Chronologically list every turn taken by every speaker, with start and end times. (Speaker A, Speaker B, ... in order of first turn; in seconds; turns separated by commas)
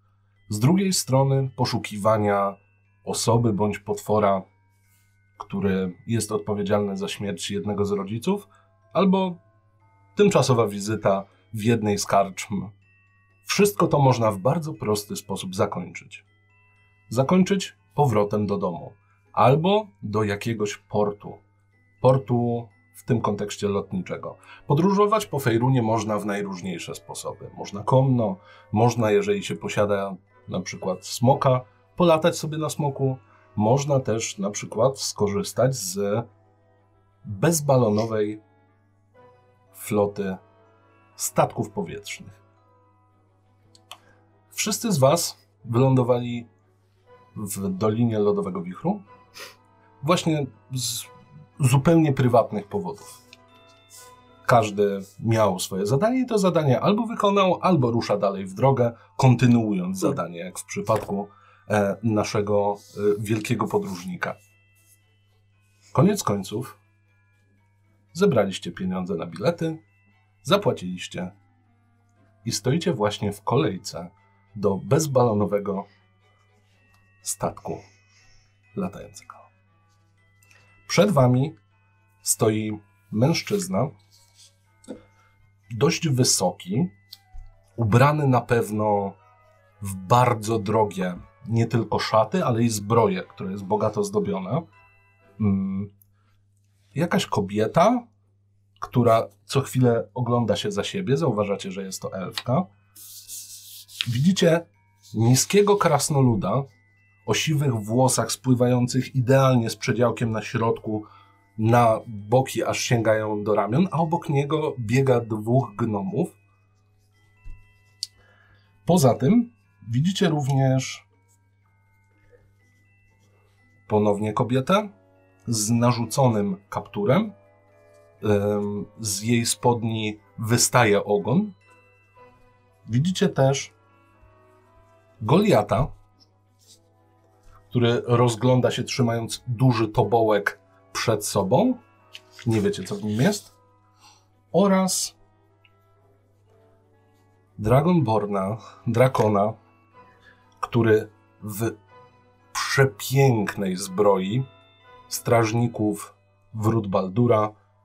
Speaker A: 0.5-4.5, Speaker A: 5.4-9.4, Speaker A: 10.2-12.7, Speaker A: 13.4-16.2, Speaker A: 17.1-21.4, Speaker A: 22.0-36.3, Speaker A: 37.2-38.4, Speaker A: 39.7-40.4, Speaker A: 41.2-42.4, Speaker A: 44.5-46.5, Speaker A: 47.3-49.0, Speaker A: 50.0-53.1, Speaker A: 54.5-64.4, Speaker A: 65.9-66.8, Speaker A: 68.1-69.8, Speaker A: 70.4-71.3, Speaker A: 72.4-75.9, Speaker A: 77.2-77.8, Speaker A: 78.7-79.4, Speaker A: 80.9-81.6, Speaker A: 82.2-83.9, Speaker A: 85.7-86.9, Speaker A: 87.8-89.2, Speaker A: 89.8-94.7, Speaker A: 95.4-95.9, Speaker A: 96.9-98.1, Speaker A: 98.8-102.7, Speaker A: 104.1-106.7, Speaker A: 107.2-116.3, Speaker A: 118.8-121.1, Speaker A: 123.9-124.9, Speaker A: 125.5-127.3, Speaker A: 128.2-131.6, Speaker A: 132.9-133.7, Speaker A: 135.2-135.9, Speaker A: 137.7-141.8, Speaker A: 142.4-143.5, Speaker A: 144.5-145.2, Speaker A: 147.6-149.6, Speaker A: 150.6-151.8, Speaker A: 152.5-154.5, Speaker A: 155.1-157.5